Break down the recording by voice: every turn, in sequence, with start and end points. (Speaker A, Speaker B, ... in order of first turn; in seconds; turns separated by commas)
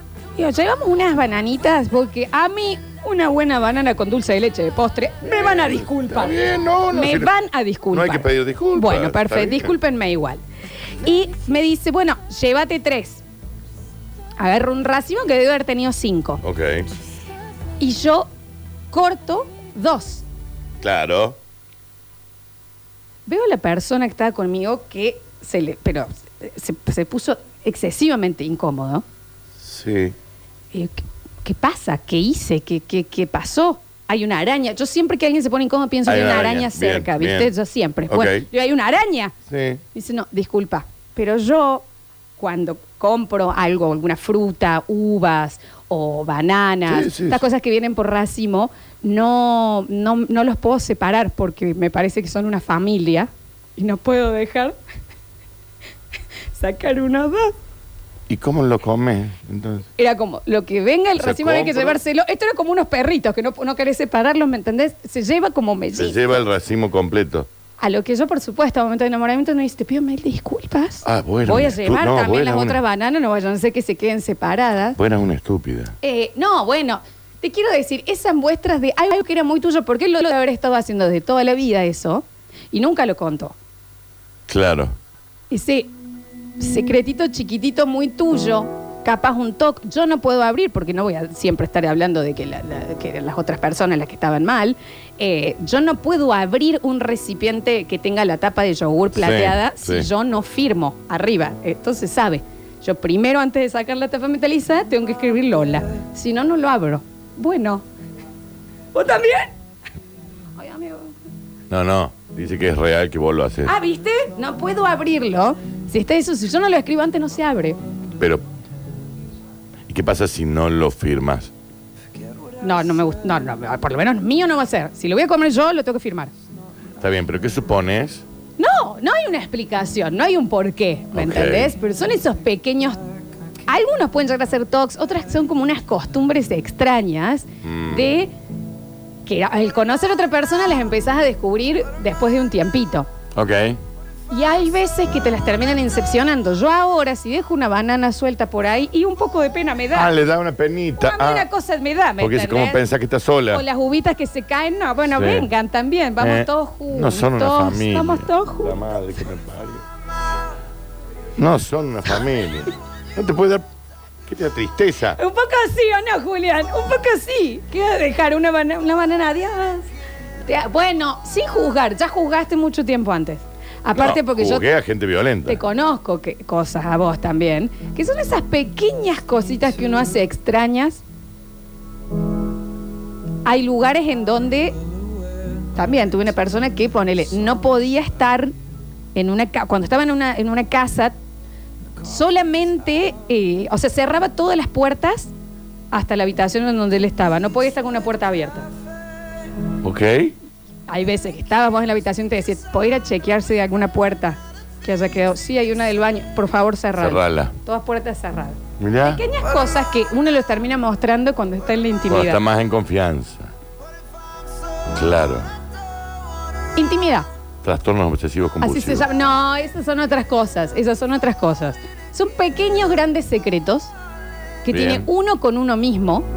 Speaker A: 0.4-10.4, Speaker B: 5.4-7.3, Speaker B: 7.9-9.7, Speaker A: 11.0-13.2, Speaker A: 14.4-16.4, Speaker B: 16.4-16.9, Speaker A: 17.8-18.3, Speaker A: 18.9-20.2, Speaker B: 20.8-21.4, Speaker A: 23.3-29.0, Speaker B: 29.6-30.1, Speaker A: 30.7-39.3, Speaker B: 36.0-37.5, Speaker B: 38.1-38.5, Speaker B: 39.5-39.8, Speaker A: 39.9-41.9, Speaker A: 42.4-54.8, Speaker B: 46.9-47.4, Speaker A: 56.5-57.5, Speaker B: 58.3-59.9, Speaker A: 60.0-66.4, Speaker B: 61.2-62.0, Speaker B: 65.9-67.5, Speaker A: 67.8-75.0, Speaker B: 71.0-72.8, Speaker B: 75.0-76.0, Speaker A: 76.0-83.5, Speaker B: 84.5-84.9, Speaker A: 85.5-85.9, Speaker A: 86.6-107.8, Speaker B: 99.1-100.1, Speaker A: 108.9-109.5, Speaker A: 110.6-111.1, Speaker B: 111.7-113.7, Speaker A: 113.7-117.8, Speaker B: 118.2-118.4, Speaker B: 119.9-121.5, Speaker A: 122.6-126.3, Speaker B: 127.0-128.2, Speaker A: 128.6-133.0, Speaker B: 131.1-131.7, Speaker A: 133.7-138.3, Speaker B: 137.6-138.1, Speaker A: 139.2-143.1, Speaker B: 143.3-143.8, Speaker A: 144.3-150.1, Speaker B: 149.9-151.5, Speaker A: 151.0-152.8, Speaker B: 152.2-153.6, Speaker A: 153.5-158.8, Speaker B: 155.1-155.5, Speaker B: 156.2-159.8, Speaker B: 161.4-163.7, Speaker B: 164.2-165.2, Speaker A: 165.2-169.9, Speaker A: 170.4-174.6, Speaker B: 173.9-175.6, Speaker A: 175.4-181.0, Speaker A: 183.4-184.8, Speaker A: 185.7-188.5, Speaker A: 189.1-191.2, Speaker A: 192.0-195.3, Speaker A: 195.9-198.7, Speaker B: 199.8-200.3, Speaker A: 200.9-212.4, Speaker B: 207.0-207.5, Speaker B: 208.8-209.2, Speaker B: 212.1-213.5, Speaker B: 214.9-215.5, Speaker A: 216.8-217.3, Speaker B: 217.6-219.1, Speaker A: 218.6-223.9, Speaker A: 224.6-226.3, Speaker B: 224.7-225.1